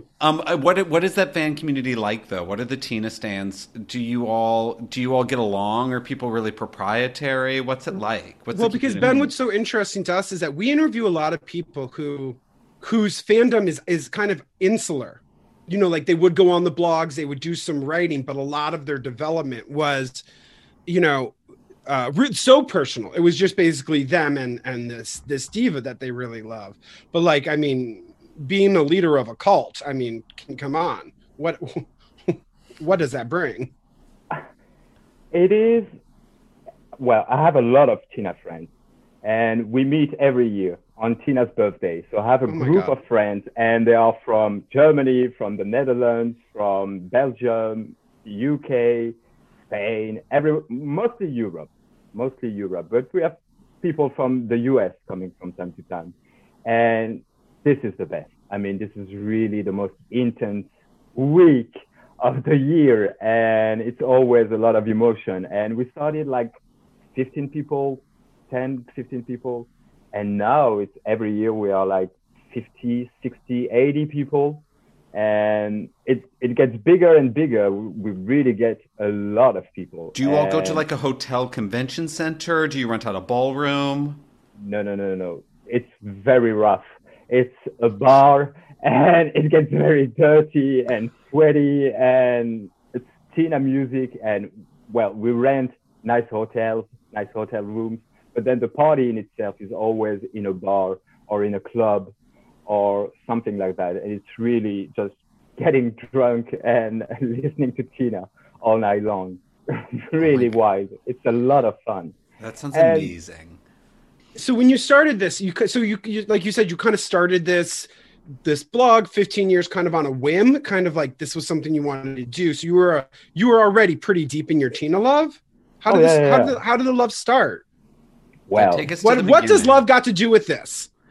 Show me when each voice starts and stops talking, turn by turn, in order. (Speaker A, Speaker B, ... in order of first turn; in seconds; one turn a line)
Speaker A: 0.2-9.3
Speaker B: 8.5-20.2
Speaker B: 20.9-33.7
Speaker C: 35.3-35.9
Speaker C: 37.0-38.7
Speaker C: 39.2-49.1
Speaker B: 42.5-43.0
Speaker C: 49.7-56.1
Speaker C: 56.6-66.5
Speaker C: 67.1-74.6
Speaker C: 75.1-80.8
Speaker A: 80.2-84.2
Speaker C: 84.6-102.1
Speaker C: 102.7-112.1
Speaker A: 110.2-110.5
Speaker A: 112.4-113.6
Speaker C: 112.7-113.1
Speaker B: 114.3-117.9
Speaker B: 118.4-127.6
Speaker C: 125.9-126.6
Speaker C: 128.5-128.9
Speaker A: 128.5-129.8
Speaker B: 129.0-130.9